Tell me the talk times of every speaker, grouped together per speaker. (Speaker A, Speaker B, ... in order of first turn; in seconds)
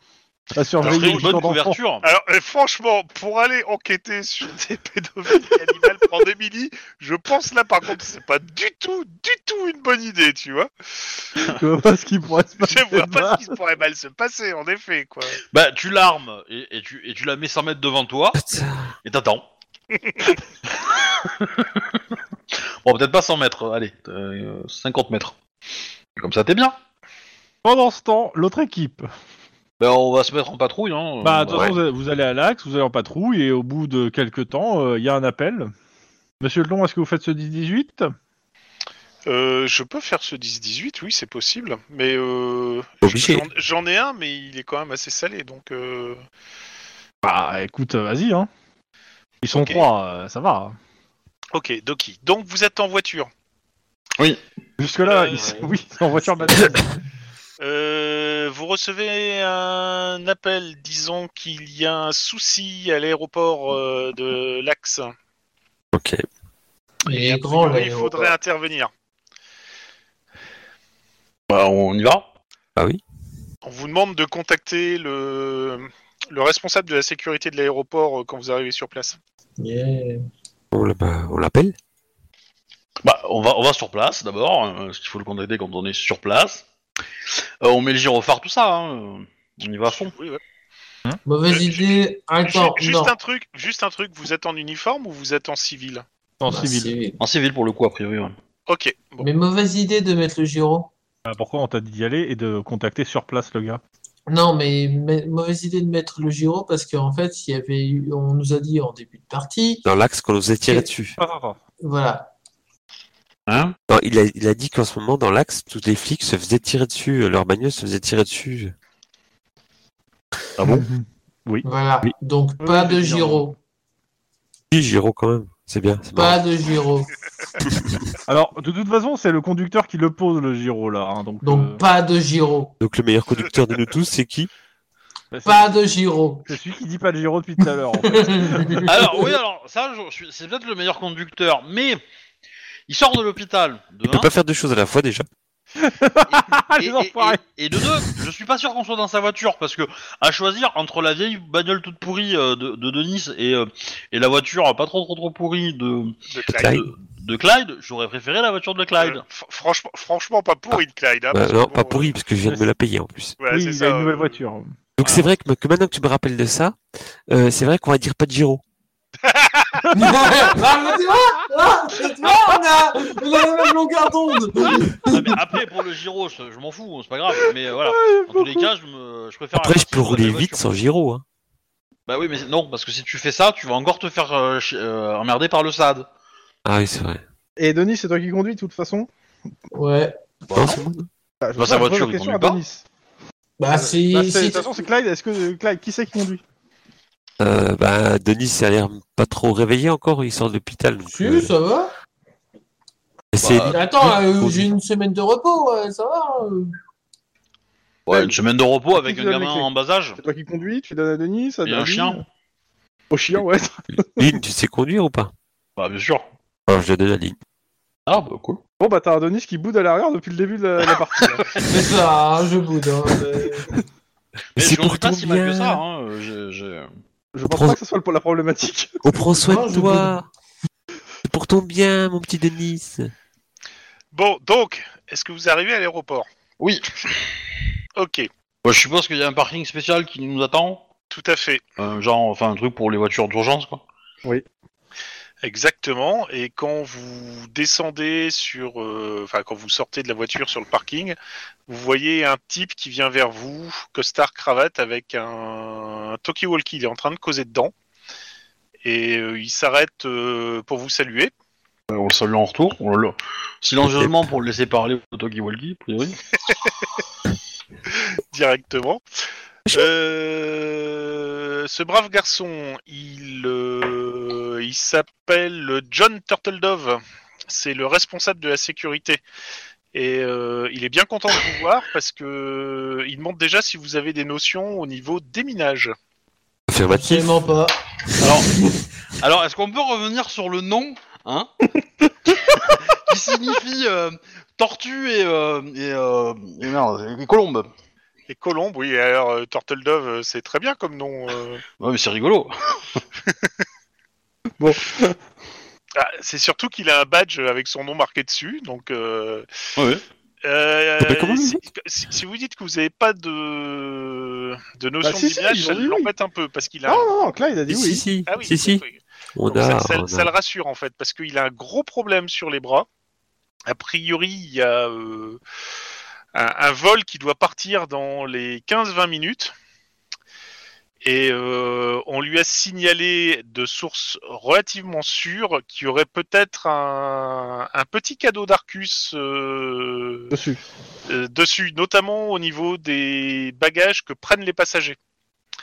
Speaker A: 0.5-1.8, 11.4-13.5, 27.6-29.1, 31.2-35.7, 36.4-38.1, 47.2-48.5, 49.4-50.8, 54.8-56.8, 96.4-96.9, 101.2-103.8, 111.2-111.6, 120.6-121.6, 122.6-123.5, 128.3-131.8, 135.3-135.8, 136.4-138.9, 145.8-147.4, 163.5-164.8, 170.0-170.3, 177.8-178.7, 187.6-189.1, 191.4-192.8, 193.7-196.4, 208.1-208.3, 208.9-212.2, 213.1-214.3, 218.8-221.5, 227.3-229.1, 304.6-305.1, 315.0-316.1, 316.9-318.0, 340.3-340.6
Speaker B: 0.8-1.5, 2.0-11.3, 12.6-15.4, 19.9-20.3, 39.2-46.2, 49.5-49.9, 51.5-53.3, 55.0-55.4, 57.6-65.1, 67.1-68.9, 73.6-79.2, 89.8-90.4, 91.5-96.0, 98.7-99.3, 156.3-156.8, 159.0-162.1, 163.4-164.4, 169.2-169.9, 234.1-236.3, 237.9-238.3, 241.1-241.6, 245.4-251.2, 251.7-257.7, 258.8-261.3, 266.4-266.7, 267.9-269.0, 269.7-279.2, 279.9-285.9, 298.3-301.6, 305.9-309.5, 310.4-317.1, 318.2-322.9, 323.7-325.4, 326.3-329.5, 331.0-340.3, 341.1-345.0
Speaker C: 0.8-2.0, 15.5-18.4, 19.0-19.4, 21.2-22.0, 22.8-25.4, 26.2-26.8, 29.8-31.8, 71.5-72.3, 83.0-86.7, 87.6-90.1, 97.2-98.3, 113.5-113.7, 138.9-142.0, 142.9-144.3, 146.3-159.2, 175.1-180.7, 182.1-186.1, 191.6-192.6, 203.4-203.8, 208.1-210.2, 211.7-212.2, 215.8-216.2, 218.1-218.6, 224.6-226.9, 236.6-237.3, 238.6-240.9, 241.8-243.8, 261.9-266.2, 288.2-288.5, 289.2-291.5, 292.5-297.7, 301.8-303.0, 309.8-310.0
Speaker D: 18.4-18.9, 31.5-31.8, 43.0-43.5, 65.9-66.2, 72.8-73.0, 80.7-81.7, 109.8-111.2, 113.9-118.7, 124.7-126.4, 127.7-128.0, 132.8-134.5, 144.0-145.3, 156.5-156.9, 161.3-163.4, 165.0-168.6, 179.5-181.2, 186.7-187.2, 190.5-191.1, 197.4-201.5, 203.3-204.7, 214.0-215.3, 216.7-217.3, 224.6-225.8, 227.5-227.8, 229.0-230.3, 231.2-233.1, 263.8-264.2, 286.7-287.4, 311.0-311.6, 317.7-318.8, 319.4-320.3
Speaker E: 55.3-55.7, 56.5-56.8, 67.1-68.3, 79.6-80.2, 91.2-93.1, 96.5-97.2, 99.2-100.9, 104.3-109.8, 111.8-112.3, 121.6-123.5, 126.1-127.1, 131.4-132.7, 135.4-136.5, 138.0-139.3, 169.9-175.3, 189.7-190.2, 193.6-194.7, 201.0-201.9, 203.7-206.7, 221.7-223.8, 229.4-230.1, 286.9-287.8